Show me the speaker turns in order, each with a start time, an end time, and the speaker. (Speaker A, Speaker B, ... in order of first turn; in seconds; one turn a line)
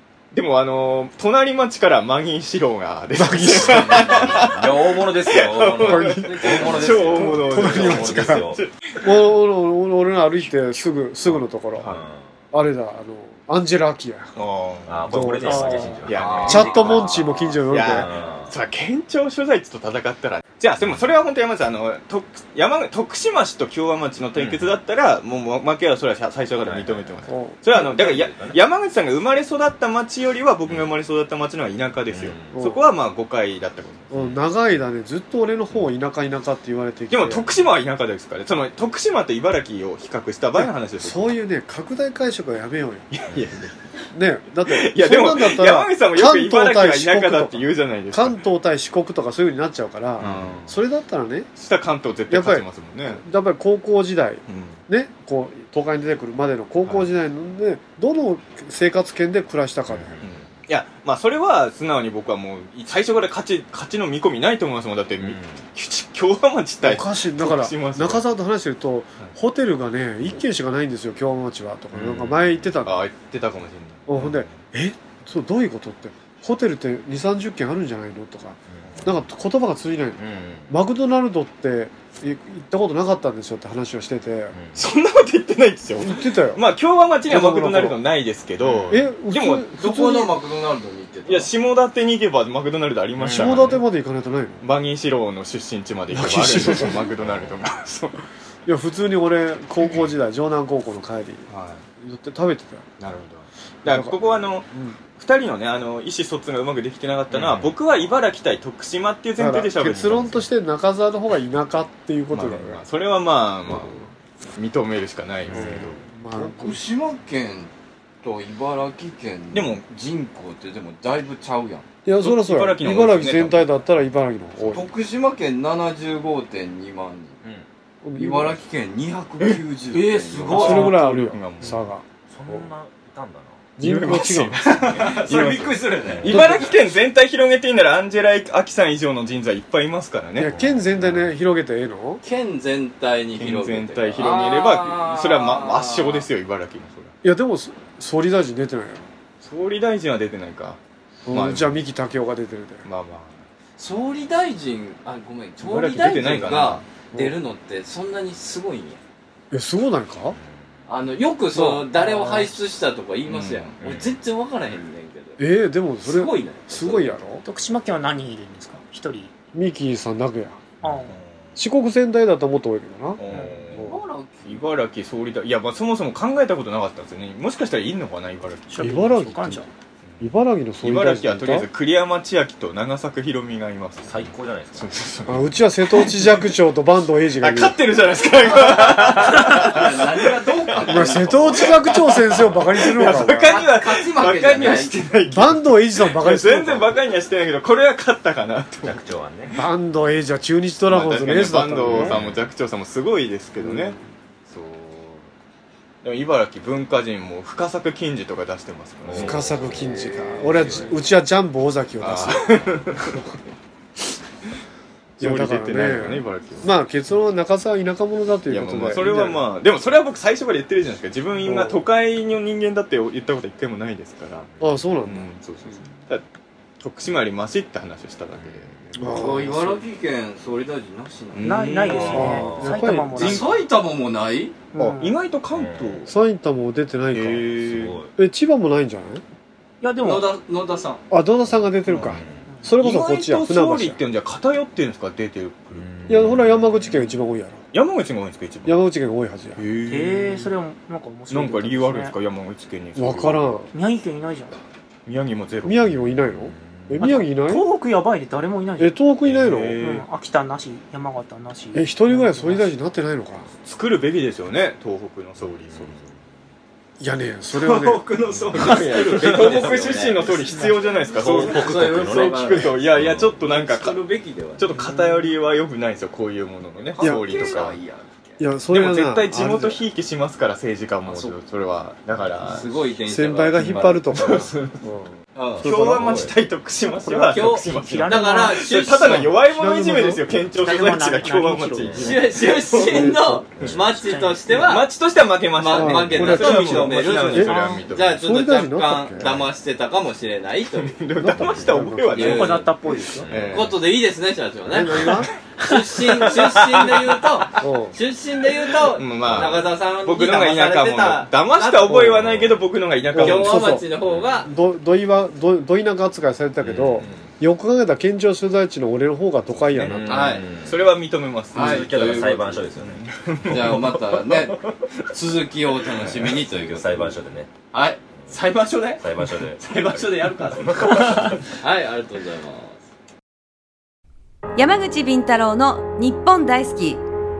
Speaker A: 0.3-9.0
Speaker B: 3.1-4.3
Speaker C: 3.3-8.6
Speaker B: 5.8-6.4
Speaker D: 5.9-7.3
Speaker B: 7.1-8.5
Speaker B: 9.0-11.9
Speaker A: 11.8-12.0
Speaker C: 11.8-12.2
Speaker B: 12.5-14.3
Speaker A: 14.3-17.1
Speaker C: 14.8-18.6
Speaker B: 15.1-18.1
Speaker E: 15.4-16.1
Speaker D: 16.1-17.2
Speaker A: 17.6-34.1
Speaker C: 20.8-21.0
Speaker C: 24.3-24.8
Speaker C: 26.6-28.6
Speaker B: 27.3-27.6
Speaker C: 32.1-32.6
Speaker B: 32.5-32.8
Speaker B: 34.1-37.4
Speaker C: 34.1-34.4
Speaker A: 37.1-41.4
Speaker B: 41.0-43.1
Speaker A: 43.1-43.7
Speaker B: 44.1-51.5
Speaker A: 44.6-48.4
Speaker C: 50.2-50.7
Speaker A: 50.2-50.7
Speaker A: 51.6-53.2
Speaker B: 52.3-60.1
Speaker A: 54.5-54.8
Speaker C: 59.9-60.5
Speaker A: 60.2-68.2
Speaker C: 65.2-65.6
Speaker B: 66.8-73.0
Speaker A: 71.9-74.6
Speaker B: 74.1-84.5
Speaker C: 78.7-79.1
Speaker C: 80.2-80.7
Speaker C: 84.5-84.8
Speaker A: 84.8-89.7
Speaker B: 86.0-86.6
Speaker B: 87.3-88.0
Speaker C: 88.6-89.0
Speaker B: 88.9-90.3
Speaker D: 89.8-91.5
Speaker A: 91.2-93.8
Speaker C: 93.2-93.8
Speaker B: 93.3-94.6
Speaker A: 94.6-98.2
Speaker B: 96.1-97.0
Speaker C: 97.2-97.6
Speaker B: 98.7-101.5
Speaker A: 101.5-101.8
Speaker B: 102.0-102.8
Speaker A: 103.0-110.4
Speaker B: 103.8-105.0
Speaker C: 107.3-107.7
Speaker B: 109.4-112.8
Speaker A: 112.3-116.0
Speaker C: 115.5-116.0
Speaker B: 115.5-116.8
Speaker D: 116.3-117.7
Speaker D: 118.2-121.8
Speaker A: 119.5-119.8
Speaker B: 122.0-124.9
Speaker A: 122.2-123.8
Speaker D: 124.7-127.3
Speaker C: 127.4-127.7
Speaker B: 128.0-128.6
Speaker D: 128.2-130.9
Speaker C: 129.9-130.9
Speaker A: 130.5-131.8
Speaker B: 130.5-132.7
Speaker C: 132.3-133.7
Speaker B: 133.8-134.6
Speaker A: 133.8-140.6
Speaker D: 134.7-136.7
Speaker C: 134.8-135.2
Speaker C: 136.1-136.4
Speaker B: 136.2-136.6
Speaker B: 140.3-142.2
Speaker C: 140.5-141.3
Speaker D: 142.2-146.3
Speaker A: 143.4-147.1
Speaker B: 147.2-149.1
Speaker A: 149.4-150.8
Speaker B: 151.3-152.9
Speaker A: 151.3-151.8
Speaker A: 152.8-153.4
Speaker D: 153.8-159.0
Speaker A: 155.6-156.8
Speaker B: 159.5-160.4
Speaker C: 160.3-160.7
Speaker D: 160.9-165.4
Speaker B: 161.5-162.5
Speaker A: 163.3-163.7
Speaker C: 163.8-164.2
Speaker B: 165.4-167.4
Speaker D: 166.0-167.2
Speaker E: 167.4-169.3
Speaker B: 169.5-170.6
Speaker E: 170.8-171.2
Speaker B: 171.5-174.0
Speaker A: 173.2-173.9
Speaker C: 173.3-173.6
Speaker D: 173.8-174.6
Speaker A: 174.4-178.9
Speaker E: 178.7-179.7
Speaker B: 178.8-179.6
Speaker B: 180.2-181.7
Speaker A: 180.8-186.4
Speaker C: 184.0-185.0
Speaker B: 185.3-187.8
Speaker A: 187.4-190.3
Speaker D: 189.2-191.9
Speaker A: 190.8-199.0
Speaker B: 190.9-193.6
Speaker D: 193.5-195.0
Speaker B: 195.3-196.9
Speaker C: 198.8-199.6
Speaker B: 199.5-202.2
Speaker A: 200.9-205.3
Speaker C: 201.8-202.4
Speaker B: 203.6-204.1
Speaker A: 206.0-209.5
Speaker C: 209.0-211.0
Speaker B: 209.2-212.4
Speaker A: 212.0-213.3
Speaker A: 215.2-216.7
Speaker B: 215.2-219.4
Speaker A: 218.5-224.5
Speaker B: 221.4-221.8
Speaker B: 224.6-225.7
Speaker A: 225.1-226.2
Speaker A: 226.8-229.5
Speaker C: 228.3-228.8
Speaker B: 228.9-229.8
Speaker D: 229.0-231.5
Speaker A: 231.3-232.4
Speaker E: 231.4-233.6
Speaker C: 231.9-232.8
Speaker B: 232.1-233.5
Speaker D: 233.1-234.6
Speaker E: 234.7-235.2
Speaker A: 235.0-236.1
Speaker C: 235.5-236.1
Speaker B: 236.1-237.5
Speaker A: 237.1-238.0
Speaker C: 237.6-238.1
Speaker B: 238.2-239.2
Speaker E: 239.8-240.3
Speaker D: 240.0-241.0
Speaker B: 241.1-244.0
Speaker C: 241.4-242.4
Speaker A: 241.9-242.2
Speaker A: 242.8-246.3
Speaker C: 245.7-247.1
Speaker B: 246.1-247.6
Speaker A: 247.7-248.8
Speaker B: 248.7-249.6
Speaker A: 249.6-250.5
Speaker E: 249.9-252.1
Speaker A: 251.3-253.6
Speaker B: 252.9-253.7
Speaker E: 253.7-254.6
Speaker A: 255.1-255.9
Speaker B: 255.6-257.6
Speaker C: 256.3-257.0
Speaker E: 257.0-259.0
Speaker B: 258.8-259.8
Speaker A: 259.2-260.1
Speaker E: 259.8-262.7
Speaker B: 261.7-263.5
Speaker A: 263.6-266.1
Speaker C: 265.4-266.2
Speaker B: 267.0-268.0
Speaker D: 267.6-272.8
Speaker C: 268.3-268.8
Speaker A: 268.5-274.0
Speaker C: 271.2-273.4
Speaker D: 273.4-274.9
Speaker A: 274.6-277.8
Speaker D: 276.8-278.4
Speaker B: 277.0-277.2
Speaker B: 278.4-279.8
Speaker A: 278.7-282.7
Speaker D: 281.0-281.4
Speaker C: 282.4-282.6
Speaker D: 282.4-284.0
Speaker B: 283.1-286.2
Speaker A: 283.6-284.8
Speaker D: 285.4-285.6
Speaker A: 285.6-293.8
Speaker C: 285.9-286.3
Speaker D: 287.0-289.3
Speaker E: 287.7-288.7
Speaker B: 289.1-290.2
Speaker E: 290.6-292.2
Speaker C: 291.8-292.1
Speaker D: 292.0-294.9
Speaker B: 292.8-293.4
Speaker E: 293.7-294.6
Speaker A: 294.5-298.2
Speaker D: 295.6-300.9
Speaker B: 295.7-297.5
Speaker B: 298.1-299.5
Speaker A: 300.8-302.7
Speaker B: 301.1-302.4
Speaker C: 301.4-301.7
Speaker D: 302.1-302.7
Speaker E: 302.2-303.3
Speaker C: 303.2-303.6
Speaker A: 303.2-303.8
Speaker D: 303.5-312.1
Speaker B: 304.7-305.3
Speaker E: 305.7-306.4
Speaker B: 307.6-307.9
Speaker A: 308.7-313.7
Speaker C: 309.2-309.6
Speaker B: 311.9-312.2
Speaker C: 312.2-312.6
Speaker B: 313.1-313.9
Speaker D: 313.2-314.5
Speaker C: 314.1-314.4
Speaker B: 314.4-320.3
Speaker C: 316.6-317.2
Speaker A: 319.6-324.2
Speaker C: 319.7-320.8
Speaker D: 320.1-320.5
Speaker C: 321.5-323.6
Speaker D: 321.5-322.6
Speaker D: 323.5-327.2
Speaker C: 325.9-327.5
Speaker D: 327.7-332.8
Speaker C: 329.0-331.4
Speaker F: 334.6-337.0